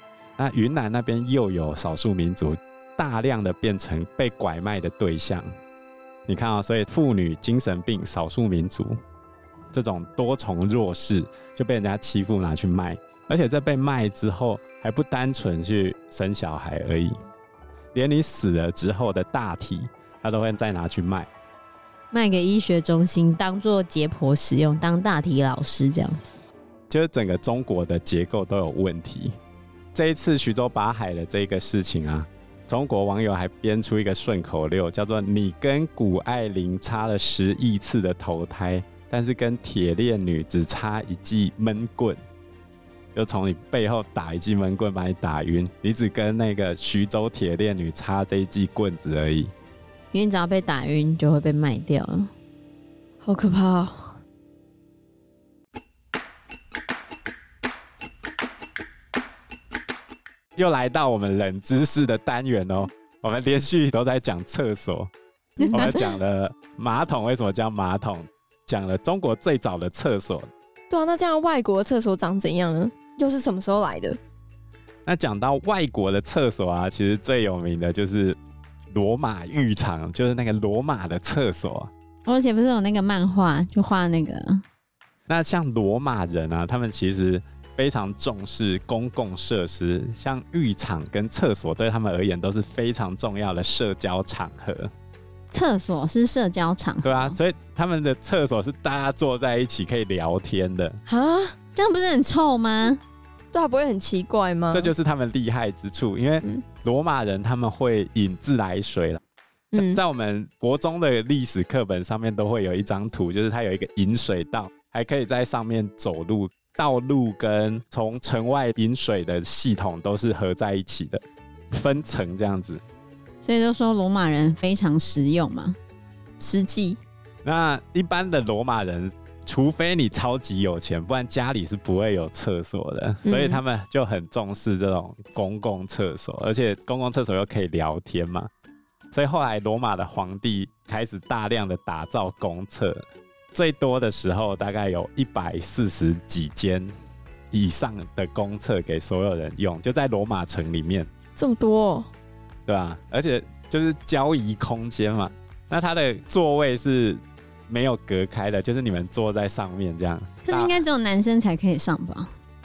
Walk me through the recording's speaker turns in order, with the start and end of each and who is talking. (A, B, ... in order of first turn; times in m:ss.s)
0:00.4-0:05.4 A
0:06.3-0:09.0 A
0:09.7-0:17.1 A
0:17.9-0:21.3 A
0:22.1-0:26.3 B
0:26.9-0:29.4 A
0:29.9-0:42.2 A
0:43.1-0:49.5 A
0:50.1-0:52.3 B
0:53.2-0:54.2 C
1:00.6-1:05.1 A
1:05.6-1:05.9 C
1:05.7-1:10.5 A
1:10.9-1:14.2 C
1:15.0-1:18.4 A
1:18.9-1:21.9 A
1:22.3-1:24.6 B
1:25.3-1:34.9 A
1:35.5-1:37.4 B
1:37.0-1:41.0 A
1:41.1-1:41.6 C
1:41.8-1:43.0 B
1:43.5-1:44.9 C
1:44.7-1:49.2 A
1:49.7-1:50.0 C
1:49.7-2:02.8 A
2:03.4-2:05.8 B
2:06.4-2:07.0 C
2:07.4-2:18.5 A
2:13.2-2:13.6 C
2:19.1-2:26.9 A
2:27.5-2:31.1 A
2:31.4-2:32.1 C
2:32.6-2:40.8 A
2:40.4-2:42.3 B